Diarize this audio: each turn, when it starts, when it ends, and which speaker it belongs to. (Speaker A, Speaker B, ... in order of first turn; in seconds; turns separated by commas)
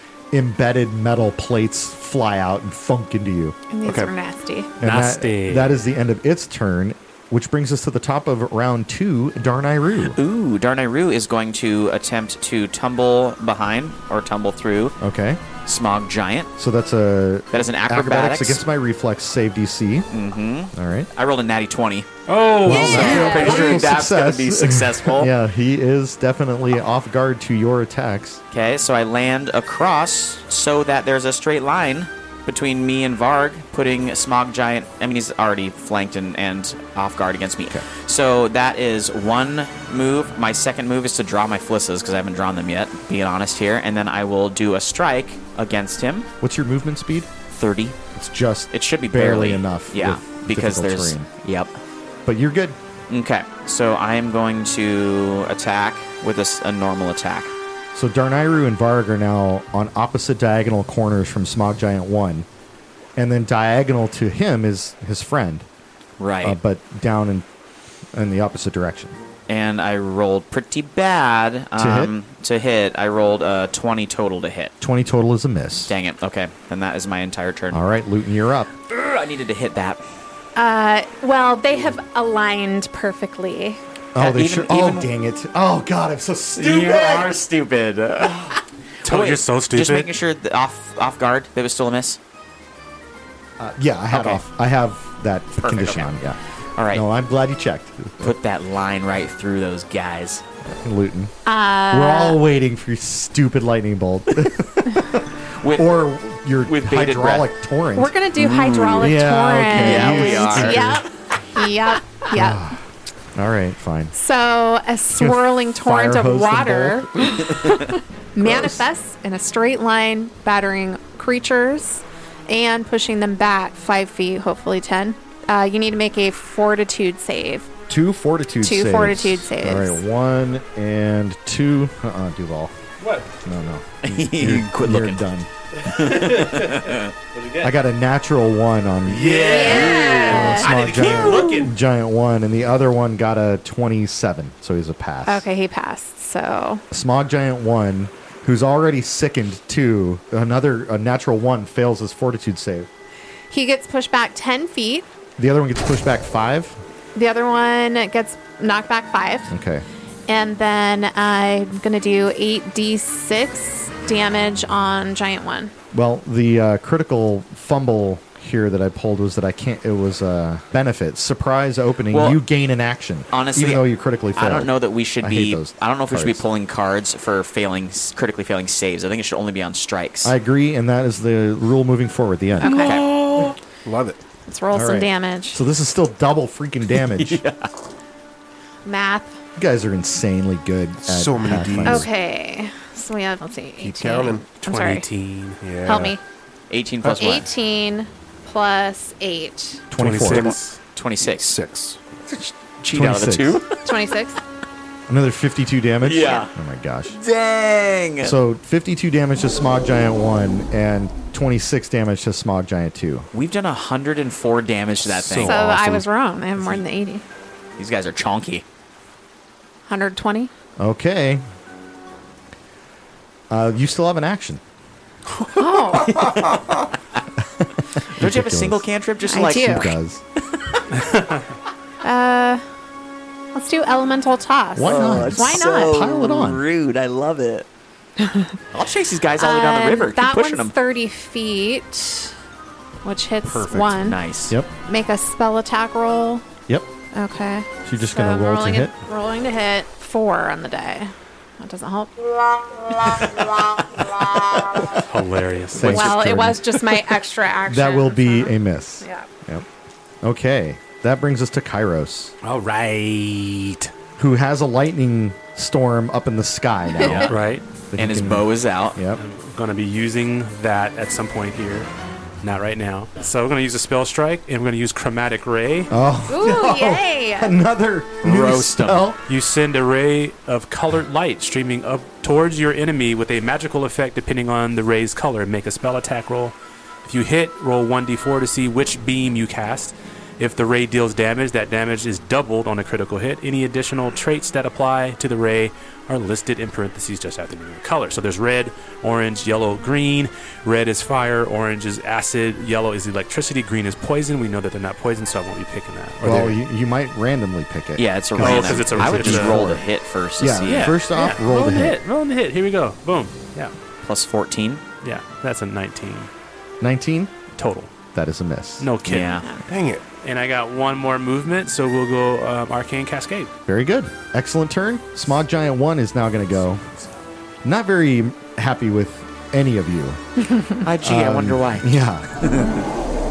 Speaker A: 0.3-3.6, Speaker B: 3.7-4.8, Speaker C: 3.8-4.1, Speaker A: 4.8-10.2, Speaker D: 4.8-5.8, Speaker E: 10.0-15.0, Speaker A: 15.0-15.4, Speaker E: 15.7-16.5, Speaker A: 16.6-20.1, Speaker E: 17.5-18.6, Speaker E: 20.1-25.3, Speaker A: 20.7-21.1, Speaker D: 22.3-23.8, Speaker A: 22.6-28.4, Speaker B: 22.7-23.7, Speaker E: 28.5-46.3, Speaker A: 46.4-47.3, Speaker E: 47.5-48.0, Speaker A: 48.1-51.3, Speaker E: 48.7-51.8, Speaker A: 52.3-52.8, Speaker E: 53.1-57.5, Speaker A: 57.9-62.5, Speaker A: 63.2-65.7, Speaker E: 66.2-66.6, Speaker A: 66.4-67.5, Speaker A: 68.1-69.2, Speaker E: 69.5-74.7, Speaker A: 71.8-72.1, Speaker A: 74.8-75.9, Speaker E: 75.9-77.8, Speaker A: 77.7-78.7, Speaker E: 78.9-80.0, Speaker B: 80.6-83.8, Speaker A: 84.1-87.3, Speaker E: 84.2-85.1, Speaker E: 86.6-92.2, Speaker D: 89.0-90.1, Speaker A: 93.6-96.4, Speaker E: 94.1-94.4, Speaker E: 95.6-96.2, Speaker E: 96.8-97.0, Speaker A: 96.9-98.3, Speaker E: 98.2-100.4, Speaker A: 100.7-101.3, Speaker B: 101.5-102.4, Speaker A: 101.9-108.1, Speaker E: 105.6-106.0, Speaker E: 106.7-107.5, Speaker B: 108.0-112.6, Speaker E: 108.5-109.0, Speaker A: 109.0-111.0, Speaker E: 109.7-111.0, Speaker A: 112.3-112.8, Speaker A: 113.4-114.1, Speaker B: 114.1-127.7, Speaker A: 115.2-117.8, Speaker A: 118.4-118.8, Speaker A: 127.9-132.7, Speaker B: 128.6-130.0, Speaker D: 133.0-133.3, Speaker A: 133.4-135.5, Speaker E: 134.0-135.2, Speaker D: 135.8-137.7, Speaker E: 135.8-137.1, Speaker A: 137.6-145.5, Speaker D: 139.1-141.7, Speaker B: 139.4-140.7, Speaker E: 139.6-140.4, Speaker B: 145.3-146.8, Speaker A: 146.9-152.9, Speaker B: 153.5-155.1, Speaker A: 155.4-156.8, Speaker B: 157.2-159.5, Speaker A: 159.5-159.8, Speaker B: 160.3-165.7, Speaker A: 165.9-176.4, Speaker E: 172.1-172.4, Speaker E: 173.3-180.3, Speaker A: 180.2-182.7, Speaker B: 182.6-183.0, Speaker E: 182.6-183.6, Speaker C: 182.8-184.2, Speaker B: 184.5-185.6, Speaker A: 184.7-187.4, Speaker E: 186.9-187.7, Speaker B: 188.8-189.4, Speaker A: 189.6-192.1, Speaker C: 191.0-192.1, Speaker B: 191.8-195.1, Speaker C: 193.8-194.5, Speaker D: 194.5-195.7, Speaker C: 195.6-196.2, Speaker B: 195.8-196.2, Speaker E: 196.7-197.5, Speaker B: 197.1-199.8, Speaker A: 199.9-200.6, Speaker D: 200.0-200.8, Speaker E: 200.3-201.6, Speaker C: 201.2-202.0, Speaker E: 202.8-203.8, Speaker A: 202.9-203.6, Speaker B: 203.8-204.4, Speaker A: 205.1-207.2, Speaker E: 206.0-206.5, Speaker E: 207.1-208.4, Speaker A: 208.2-213.3, Speaker E: 213.3-216.1, Speaker C: 215.0-215.8, Speaker B: 215.4-217.2, Speaker E: 217.8-218.6, Speaker B: 219.9-220.5, Speaker A: 220.8-221.4, Speaker A: 223.5-224.6, Speaker C: 225.3-226.7, Speaker B: 225.6-226.2, Speaker E: 226.1-226.6, Speaker A: 227.6-228.8, Speaker E: 228.2-229.9, Speaker B: 229.3-230.0, Speaker A: 229.4-230.2, Speaker D: 230.9-231.4, Speaker B: 232.0-232.7, Speaker B: 233.5-236.0, Speaker A: 234.8-236.6, Speaker E: 234.8-237.7, Speaker B: 238.2-238.6, Speaker E: 238.7-240.7, Speaker B: 239.4-242.3, Speaker B: 243.0-244.2, Speaker E: 243.7-244.6, Speaker B: 244.9-246.5, Speaker B: 247.1-255.0, Speaker A: 247.8-248.9, Speaker D: 255.0-256.0, Speaker A: 255.7-257.1, Speaker E: 255.8-256.5, Speaker B: 255.8-259.3, Speaker A: 257.7-259.7, Speaker A: 260.2-262.3, Speaker D: 262.4-263.9, Speaker A: 264.2-267.4, Speaker B: 266.9-267.2, Speaker E: 267.0-267.3, Speaker D: 267.3-267.6, Speaker A: 267.9-269.2, Speaker E: 267.9-269.0, Speaker D: 269.2-271.9, Speaker D: 272.4-275.9, Speaker A: 275.9-279.2, Speaker B: 276.3-277.6, Speaker E: 278.2-279.1, Speaker D: 279.3-306.6, Speaker A: 306.2-309.9, Speaker E: 308.0-311.0, Speaker D: 308.4-309.7, Speaker A: 310.4-312.0, Speaker D: 310.6-313.7, Speaker E: 314.0-314.8, Speaker D: 315.0-316.3, Speaker A: 316.8-317.3, Speaker D: 317.6-317.9, Speaker A: 318.1-318.9, Speaker D: 318.8-319.3, Speaker E: 319.1-319.5, Speaker B: 319.3-319.6, Speaker C: 319.6-320.0, Speaker D: 320.2-323.5, Speaker A: 323.7-326.8, Speaker A: 327.6-330.2, Speaker E: 330.8-332.8, Speaker A: 331.0-332.3